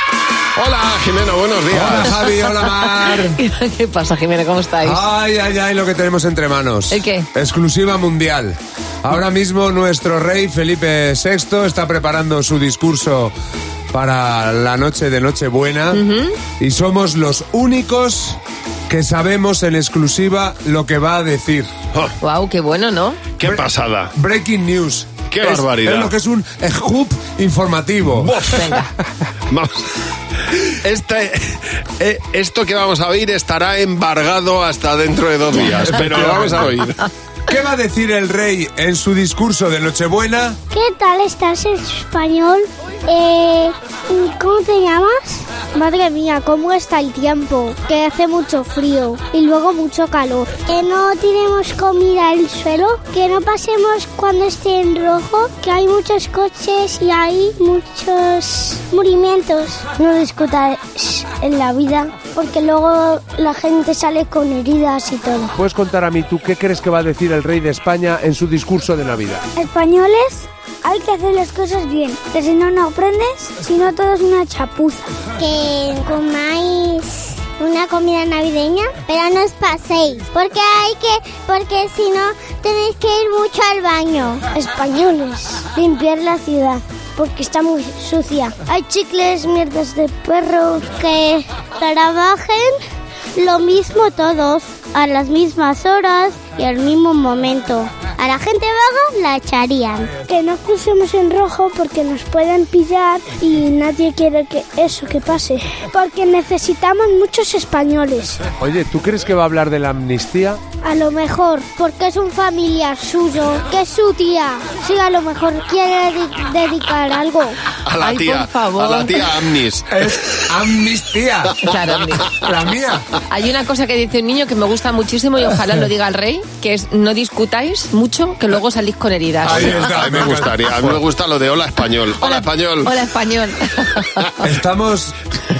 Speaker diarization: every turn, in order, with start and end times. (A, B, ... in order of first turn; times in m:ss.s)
0:00.6-0:02.2 A
0:01.7-0:03.4 B
0:03.0-0:05.0 C
0:04.8-0:13.3 B
0:06.9-0:07.3 C
0:13.9-0:16.0 B
0:15.9-0:16.4 C
0:16.6-0:21.7 B
0:22.2-0:23.2 C
0:23.4-0:24.1 A
0:23.4-0:28.4 B
0:25.3-0:26.1 A
0:28.2-0:28.8 A
0:28.5-0:28.9 C
0:30.7-0:37.0 A
0:35.7-0:36.7 B
0:37.5-0:40.6 B
0:40.7-1:05.5 D
1:05.5-1:09.4 B
1:09.6-1:32.8 D
1:33.4-1:48.4 D
1:48.6-1:50.6 B
1:50.8-1:57.6 D
1:57.8-2:00.0 A
1:58.0-1:59.3 C
1:59.9-2:01.6 B
2:01.6-2:02.4 C
2:02.3-2:03.1 B
2:03.3-2:10.3 C
2:09.4-2:11.0 B
2:09.5-2:12.9 A
2:12.2-2:14.5 C
2:14.4-2:15.2 B